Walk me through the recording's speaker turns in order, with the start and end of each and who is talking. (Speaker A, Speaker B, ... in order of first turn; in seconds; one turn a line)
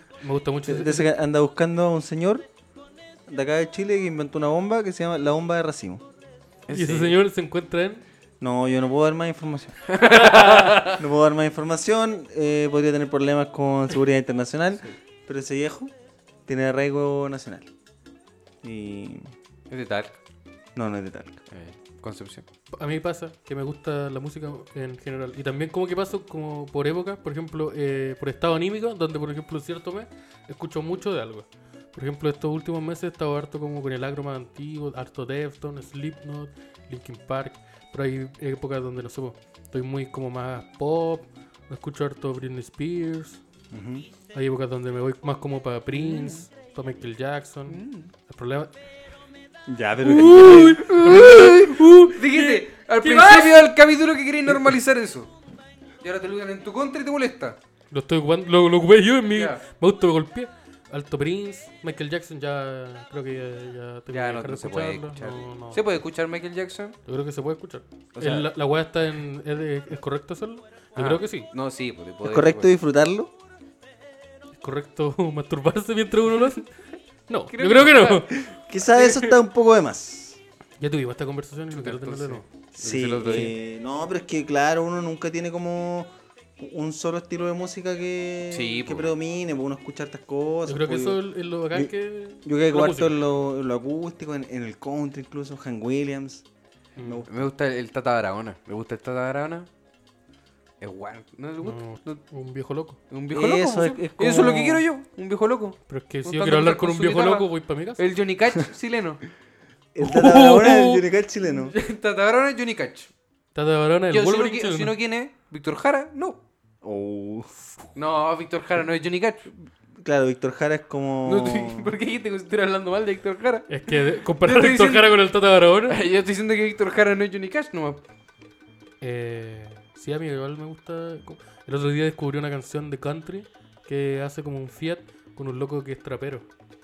Speaker A: 0.2-1.1
Speaker B: 0.7-2.5
Speaker B: 3.3-6.0
Speaker C: 6.7-7.2
Speaker A: 6.7-8.0
Speaker B: 8.4-9.8
Speaker C: 9.9-11.0
Speaker A: 10.0-10.9
Speaker B: 10.9-15.9
Speaker B: 16.5-17.7
Speaker B: 18.6-19.3
Speaker C: 19.7-20.1
Speaker B: 20.8-21.4
Speaker C: 21.5-22.4
Speaker A: 22.7-43.4
Speaker B: 43.7-44.1
Speaker A: 44.3-48.7
Speaker C: 45.9-46.4
Speaker C: 47.7-48.1
Speaker B: 49.7-50.8
Speaker A: 50.0-53.7
Speaker C: 50.3-55.3
Speaker C: 56.0-57.6
Speaker A: 57.9-65.8
Speaker C: 59.3-59.6
Speaker C: 64.1-67.0
Speaker A: 67.1-71.5
Speaker C: 68.1-68.5
Speaker C: 71.0-72.7
Speaker B: 72.2-73.3
Speaker A: 74.6-76.7
Speaker A: 77.3-78.3
Speaker C: 77.5-79.4
Speaker B: 78.4-80.4
Speaker A: 80.8-82.4
Speaker C: 81.7-83.6
Speaker B: 82.8-91.2
Speaker C: 88.5-89.1
Speaker A: 90.7-93.2
Speaker B: 92.4-96.5
Speaker A: 97.0-97.2
Speaker B: 97.0-97.5
Speaker C: 97.3-99.7
Speaker C: 100.8-102.2
Speaker A: 101.6-103.0
Speaker C: 103.1-107.5
Speaker B: 103.3-104.9
Speaker A: 105.9-108.0
Speaker C: 108.0-109.2
Speaker B: 109.9-111.7
Speaker A: 110.0-111.0
Speaker C: 111.6-113.1
Speaker A: 113.5-114.9
Speaker C: 114.1-116.4
Speaker B: 116.8-117.5
Speaker C: 118.0-119.5
Speaker B: 120.0-121.9
Speaker C: 121.2-123.8
Speaker A: 123.7-126.0
Speaker C: 124.4-125.2
Speaker C: 125.9-128.0
Speaker A: 129.0-136.5